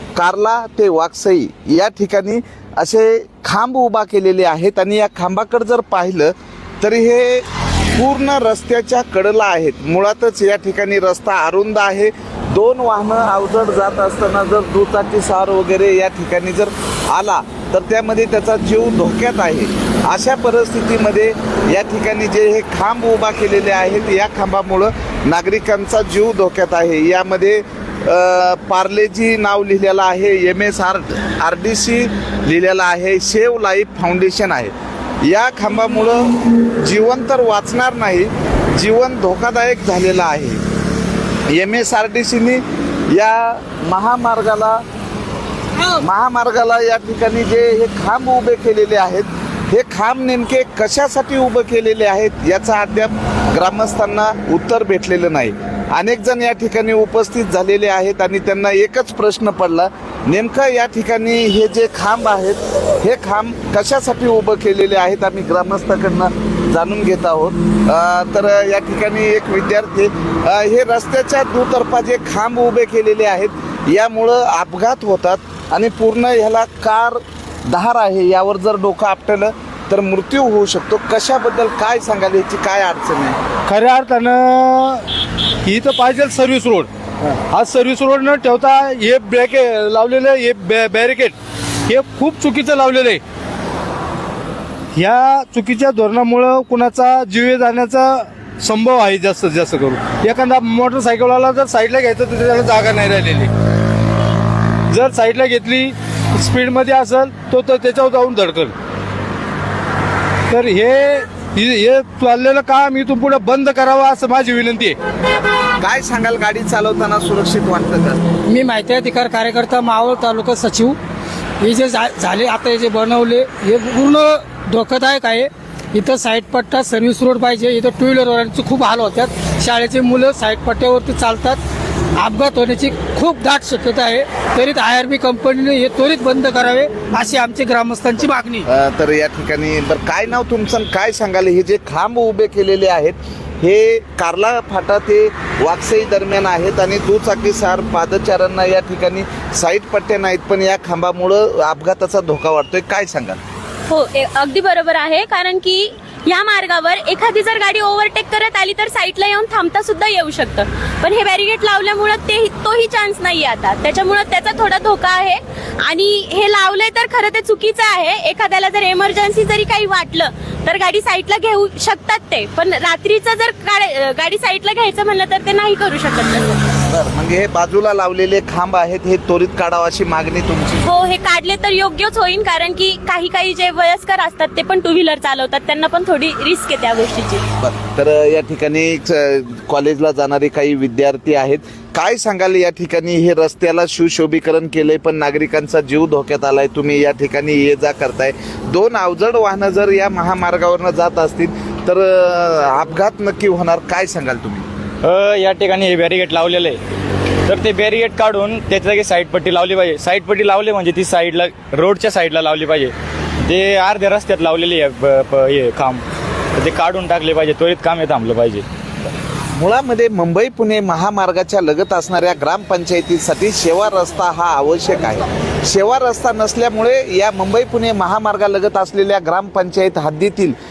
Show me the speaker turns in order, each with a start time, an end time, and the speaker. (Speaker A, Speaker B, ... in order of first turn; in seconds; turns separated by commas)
Speaker A: 0.2-40.6, Speaker A: 41.5-44.8, Speaker A: 45.9-83.4, Speaker B: 83.7-85.0, Speaker B: 85.7-86.9, Speaker B: 87.5-91.3, Speaker B: 91.9-93.2, Speaker B: 94.9-103.5, Speaker B: 104.9-108.7, Speaker B: 110.5-115.0, Speaker A: 115.8-118.2, Speaker C: 118.5-121.0, Speaker C: 121.6-131.6, Speaker C: 132.2-138.7, Speaker A: 138.7-153.4, Speaker D: 153.9-176.6, Speaker A: 176.9-180.9, Speaker D: 180.8-187.4, Speaker A: 187.6-204.7, Speaker E: 205.0-206.8, Speaker E: 207.5-212.9, Speaker E: 213.5-216.0, Speaker E: 216.6-218.6, Speaker A: 219.5-230.6